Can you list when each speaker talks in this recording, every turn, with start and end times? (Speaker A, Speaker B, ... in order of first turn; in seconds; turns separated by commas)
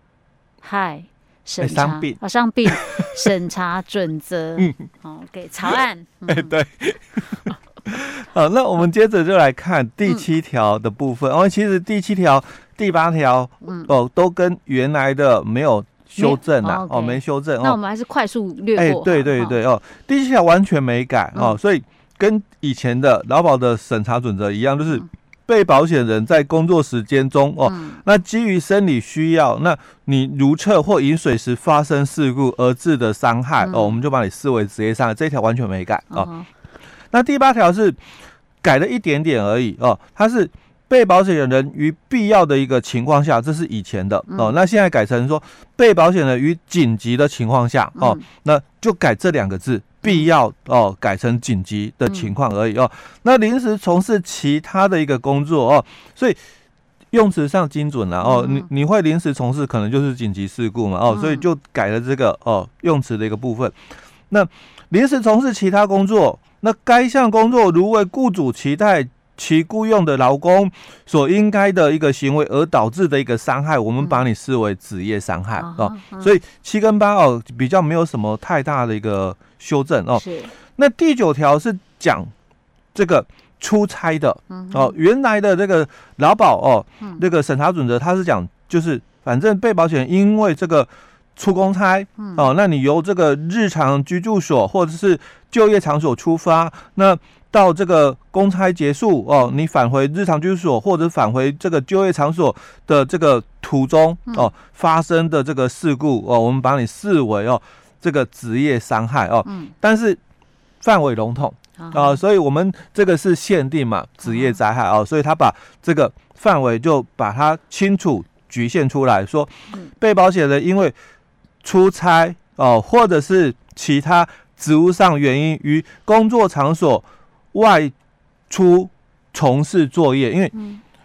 Speaker A: 0.6-6.5, Speaker B: 1.6-3.3, Speaker B: 4.6-4.8, Speaker B: 6.3-17.8, Speaker A: 13.6-13.9, Speaker A: 16.2-19.6, Speaker B: 18.8-36.3, Speaker A: 27.7-28.0, Speaker A: 33.6-34.0, Speaker A: 36.1-36.5, Speaker B: 37.1-38.0, Speaker B: 38.6-56.4, Speaker A: 44.3-44.5, Speaker A: 48.0-48.2, Speaker B: 57.1-63.8, Speaker A: 58.2-58.7, Speaker A: 61.1-61.4, Speaker B: 64.3-82.3, Speaker A: 75.6-76.3, Speaker A: 80.1-80.5, Speaker B: 82.9-110.2, Speaker A: 84.5-84.9, Speaker A: 92.2-92.4, Speaker A: 109.5-109.7, Speaker B: 110.8-120.9, Speaker A: 111.8-112.2, Speaker A: 114.2-114.6, Speaker B: 121.6-127.9, Speaker B: 128.5-130.5, Speaker A: 130.5-130.8